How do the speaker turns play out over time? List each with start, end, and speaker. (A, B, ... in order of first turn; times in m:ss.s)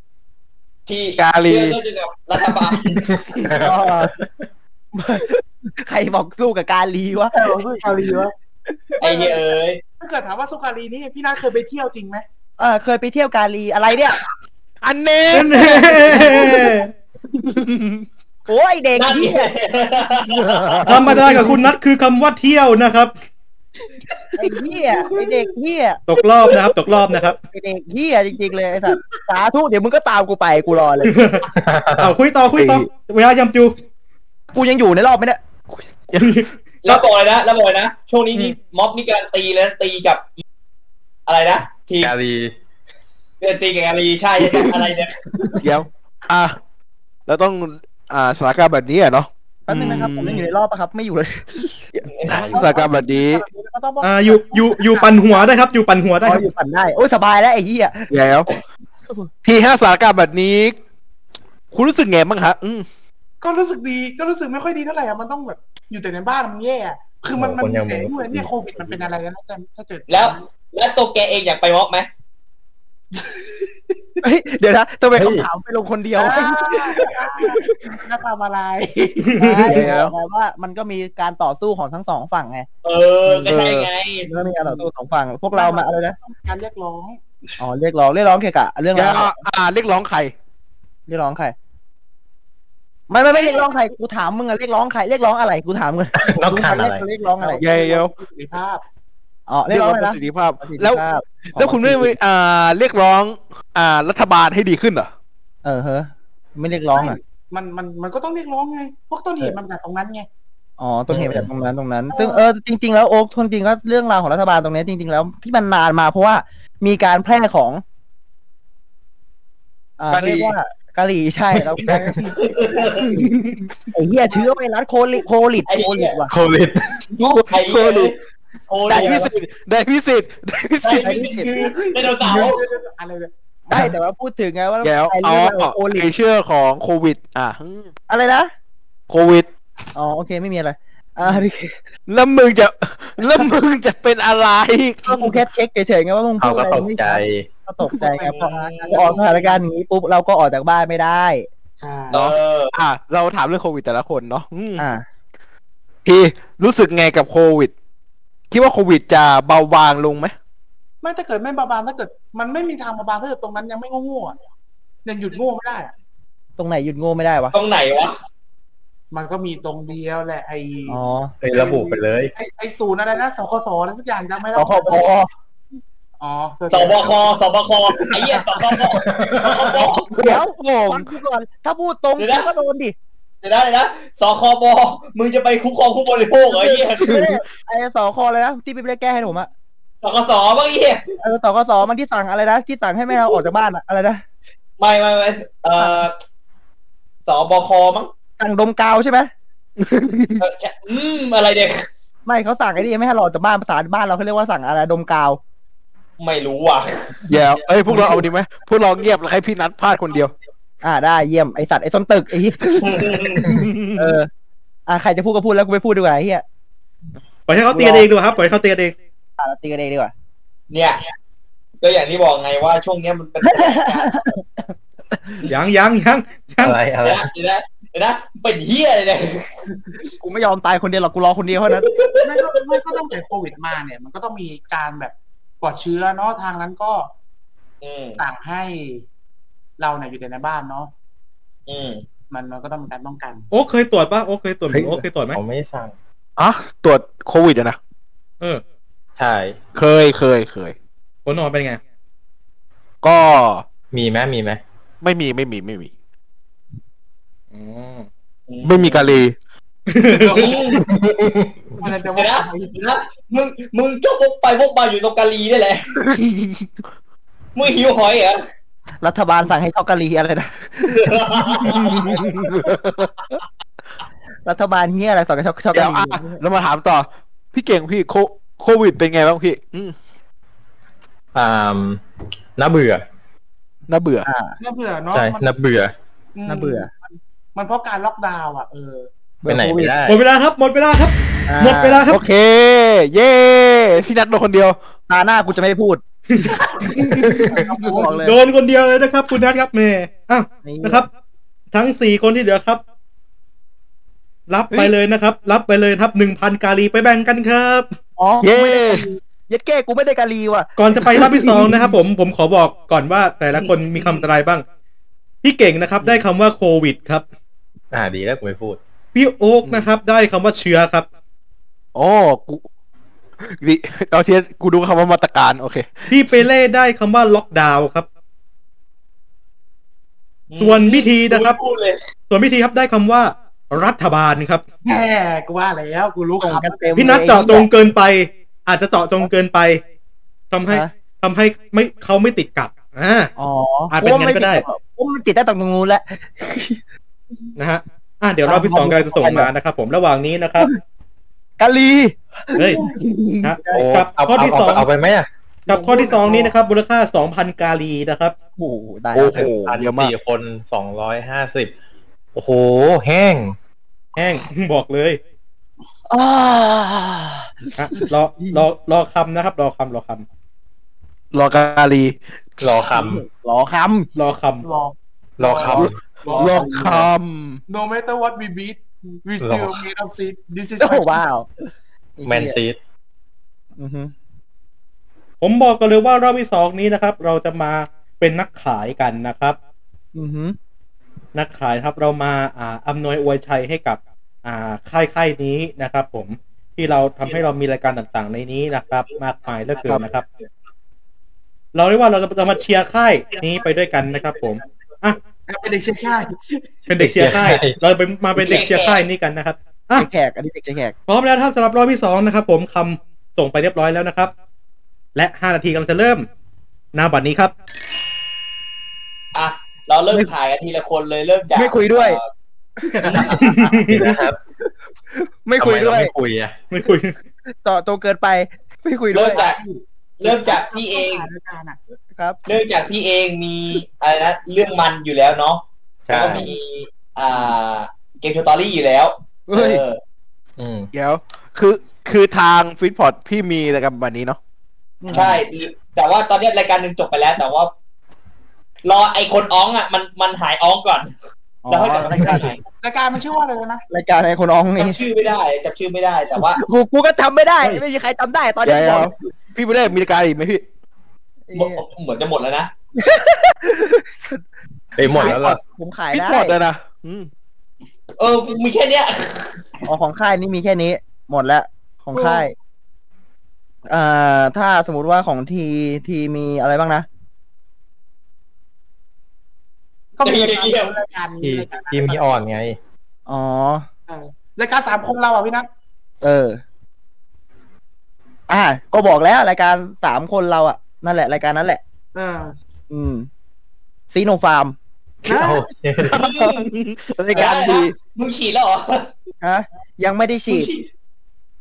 0:00.9-0:03.1 A
0:01.2-0:01.8 B
0:03.3-0:03.8 C
0:03.6-0:04.2 D
0:04.9-0:07.5 D
0:07.3-0:08.3 E
0:09.0-0:09.8 A
0:09.0-0:09.4 E
0:10.0-0:12.2 E
0:12.6-0:14.2 D
0:14.8-0:16.7 B
0:15.3-0:16.9 F
0:16.1-0:16.6 D
0:17.3-0:18.1 B
0:18.5-0:19.5 D
0:19.0-0:21.4 A
0:20.4-0:21.5 B
0:20.9-0:23.1 F
0:20.9-0:21.4 D
0:24.4-0:26.0 D
0:26.1-0:27.4 F
0:27.5-0:31.4 D
0:31.0-0:31.4 F
0:31.6-0:32.2 C
0:32.0-0:33.8 F
0:32.6-0:32.9 B
0:34.5-0:35.4 D
0:36.1-0:36.4 B
0:36.2-0:37.0 F
0:36.8-0:40.4 A
0:41.3-0:42.1 A
0:42.0-0:42.5 C
0:43.4-0:45.6 A
0:45.5-0:46.6 B
0:47.3-0:50.5 B
0:49.7-0:52.1 D
0:52.2-0:52.5 A
0:52.3-0:53.4 B
0:52.4-0:55.5 E
0:54.0-0:56.5 F
0:56.2-0:58.1 D
0:58.1-0:58.5 B
0:59.4-1:00.8 B
1:01.7-1:02.9 B
1:03.4-1:10.4 E
1:07.3-1:09.1 C
1:10.1-1:12.1 A
1:14.2-1:17.6 D
1:15.2-1:15.5 C
1:16.2-1:19.4 E
1:19.2-1:19.7 F
1:19.4-1:22.7 D
1:19.6-1:20.1 B
1:22.8-1:24.3 A
1:23.4-1:23.9 B
1:24.3-1:26.2 D
1:24.6-1:24.9 E
1:25.5-1:27.2 E
1:27.6-1:29.4 D
1:28.9-1:30.3 B
1:31.1-1:31.6 D
1:33.1-1:37.6 D
1:33.4-1:33.6 E
1:36.2-1:37.0 C
1:37.4-1:38.8 E
1:37.6-1:38.1 B
1:39.5-1:42.2 D
1:39.7-1:41.0 B
1:41.5-1:45.1 B
1:45.6-1:47.2 D
1:46.9-1:50.3 E
1:50.8-1:57.8 D
1:51.1-1:51.5 C
1:52.1-1:52.5 E
2:00.0-2:02.3 D
2:00.1-2:00.5 B
2:02.3-2:03.2 A
2:03.2-2:03.7 B
2:03.9-2:06.3 D
2:05.7-2:06.2 A
2:06.3-2:06.8 C
2:07.1-2:08.1 B
2:07.5-2:08.1 A
2:08.7-2:09.3 A
2:08.8-2:11.3 B
2:10.8-2:12.6 A
2:11.0-2:11.5 D
2:11.7-2:13.3 E
2:13.7-2:16.1 D
2:14.8-2:17.9 B
2:18.1-2:18.5 D
2:19.1-2:19.5 B
2:20.0-2:21.8 D
2:22.1-2:25.4 B
2:25.1-2:31.5 D
2:26.4-2:27.5 C
2:28.2-2:29.2 A
2:28.4-2:29.5 E
2:31.8-2:32.2 E
2:32.1-2:32.7 A
2:32.1-2:34.8 B
2:34.8-2:35.0 D
2:36.0-2:37.7 B
2:38.5-2:40.3 B
2:41.0-2:44.4 E
2:45.0-2:45.9 E
2:46.6-2:47.6 D
2:47.5-2:48.2 A
2:49.1-2:51.0 E
2:50.9-2:51.3 D
2:51.4-2:52.3 C
2:51.5-2:55.1 E
2:54.6-2:55.3 D
2:56.2-2:57.3 E
2:56.7-3:00.1 A
2:59.0-2:59.7 C
3:00.1-3:01.0 B
3:00.1-3:02.9 D
3:02.2-3:02.5 A
3:03.4-3:07.2 A
3:06.4-3:09.5 D
3:07.1-3:07.4 B
3:10.0-3:11.0 A
3:11.2-3:14.2 D
3:14.8-3:16.2 A
3:15.8-3:16.1 D
3:17.3-3:18.1 A
3:18.4-3:19.3 D
3:19.8-3:20.4 B
3:20.4-3:21.8 A
3:22.3-3:25.4 D
3:26.2-3:27.2 A
3:27.3-3:30.3 B
3:27.9-3:28.2 D
3:30.8-3:33.2 D
3:32.7-3:33.5 A
3:33.4-3:34.2 B
3:34.0-3:34.3 D
3:34.9-3:36.4 D
3:37.5-3:38.9 F
3:37.7-3:38.1 D
3:39.4-3:40.1 D
3:40.7-3:41.0 A
3:41.8-3:44.2 A
3:43.4-3:44.4 D
3:45.5-3:46.8 F
3:46.6-3:47.3 C
3:47.0-3:49.5 A
3:50.2-3:51.9 D
3:51.7-3:52.6 A
3:52.2-3:57.1 E
3:57.8-3:58.2 A
3:58.2-3:59.0 E
3:59.8-4:00.9 E
4:01.7-4:02.0 A
4:02.3-4:03.5 E
4:03.5-4:05.4 F
4:04.7-4:05.9 C
4:06.4-4:07.8 B
4:09.2-4:09.6 C
4:09.8-4:10.7 B
4:11.3-4:11.8 F
4:13.0-4:13.6 B
4:13.9-4:14.6 C
4:15.0-4:15.9 B
4:17.5-4:18.1 F
4:18.5-4:19.2 A
4:18.6-4:19.4 B
4:19.9-4:20.5 F
4:20.2-4:20.8 A
4:20.8-4:21.6 C
4:21.8-4:22.8 E
4:22.2-4:25.9 A
4:26.0-4:26.7 B
4:27.6-4:28.4 A
4:29.0-4:31.1 D
4:30.8-4:32.3 A
4:31.7-4:33.1 B
4:34.4-4:36.4 D
4:35.7-4:40.0 B
4:41.3-4:42.0 C
4:42.6-4:43.0 C
4:43.9-4:44.3 B
4:44.2-4:44.6 D
4:44.6-4:45.4 E
4:45.1-4:45.9 C
4:46.4-4:46.9 E
4:46.5-4:46.9 D
4:47.6-4:49.1 E
4:49.4-4:50.0 D
4:49.5-4:50.2 C
4:50.1-4:52.2 F
4:51.5-4:52.1 D
4:52.1-4:54.8 B
4:55.1-4:56.0 D
4:56.3-4:57.4 F
4:57.2-4:57.5 C
4:57.5-4:58.4 D
4:57.7-4:58.2 E
4:58.2-5:01.1 F
5:00.6-5:01.0 D
5:01.7-5:02.8 F
5:04.5-5:07.9 F
5:08.2-5:10.7 D
5:08.4-5:09.1 B
5:10.8-5:14.6 F
5:11.2-5:11.8 B
5:15.4-5:17.2 F
5:17.9-5:18.8 C
5:19.1-5:21.1 F
5:22.0-5:22.6 B
5:23.4-5:26.3 B
5:26.1-5:28.1 F
5:30.5-5:32.0 A
5:30.6-5:31.6 F
5:32.3-5:34.6 F
5:34.8-5:37.0 E
5:36.4-5:37.7 D
5:37.0-5:39.8 F
5:40.5-5:43.3 F
5:43.4-5:46.8 D
5:43.9-5:44.6 F
5:47.6-5:50.7 F
5:48.4-5:49.5 D
5:51.6-5:53.0 D
5:52.6-5:52.8 F
5:53.0-5:53.5 B
5:53.4-5:54.9 F
5:53.7-5:55.3 C
5:55.7-5:58.3 F
5:55.7-5:56.5 E
5:58.6-5:59.7 D
5:59.2-6:00.1 B
5:59.2-6:01.7 C
6:02.3-6:03.6 C
6:04.2-6:05.2 F
6:06.1-6:08.6 D
6:07.8-6:10.2 F
6:11.3-6:12.2 B
6:12.6-6:13.2 C
6:12.9-6:14.1 D
6:14.2-6:14.6 F
6:14.6-6:16.9 E
6:15.4-6:16.0 C
6:15.7-6:17.6 B
6:16.3-6:17.1 D
6:17.7-6:21.2 E
6:19.4-6:19.8 C
6:20.8-6:21.5 D
6:22.2-6:22.6 D
6:22.2-6:22.8 C
6:23.8-6:24.1 D
6:25.4-6:29.6 F
6:30.2-6:30.6 D
6:31.4-6:40.3 F
6:41.7-6:45.2 F
6:45.5-6:46.4 E
6:46.9-6:50.1 F
6:47.0-6:47.8 C
6:48.4-6:49.0 A
6:50.0-6:50.9 D
6:51.1-6:54.3 F
6:55.2-6:56.3 F
6:57.0-6:57.5 F
6:59.4-7:02.3 A
7:01.6-7:02.2 D
7:02.8-7:03.3 D
7:02.9-7:04.4 C
7:03.1-7:03.4 A
7:03.4-7:04.0 F
7:05.1-7:06.1 D
7:05.6-7:06.6 C
7:06.7-7:07.2 F
7:07.6-7:09.4 D
7:09.1-7:09.6 A
7:09.3-7:11.8 E
7:10.2-7:11.3 A
7:12.5-7:20.0 A
7:16.1-7:16.5 C
7:19.5-7:19.8 D
7:20.6-7:20.9 C
7:20.9-7:24.4 B
7:25.0-7:25.4 D
7:25.1-7:27.7 A
7:28.8-7:31.1 A
7:31.6-7:32.5 D
7:31.7-7:32.6 A
7:32.8-7:33.8 E
7:33.9-7:35.0 D
7:34.8-7:36.6 A
7:36.5-7:39.1 D
7:38.6-7:40.6 B
7:41.5-7:41.8 D
7:41.6-7:42.7 A
7:43.0-7:44.4 D
7:45.0-7:45.6 C
7:45.0-7:46.6 D
7:46.1-7:47.3 B
7:48.2-7:49.6 A
7:49.8-7:52.5 D
7:52.2-7:52.4 E
7:53.9-7:57.1 D
8:00.2-8:02.4 E
8:00.2-8:01.0 A
8:01.4-8:02.8 C
8:03.3-8:03.9 D
8:04.1-8:05.7 E
8:06.2-8:06.6 D
8:08.5-8:11.8 D
8:12.2-8:12.5 E
8:12.9-8:13.3 D
8:14.1-8:14.8 D
8:15.3-8:15.7 E
8:15.3-8:16.2 C
8:16.1-8:16.7 A
8:16.1-8:18.0 B
8:17.3-8:19.1 A
8:19.4-8:20.7 D
8:20.5-8:20.9 A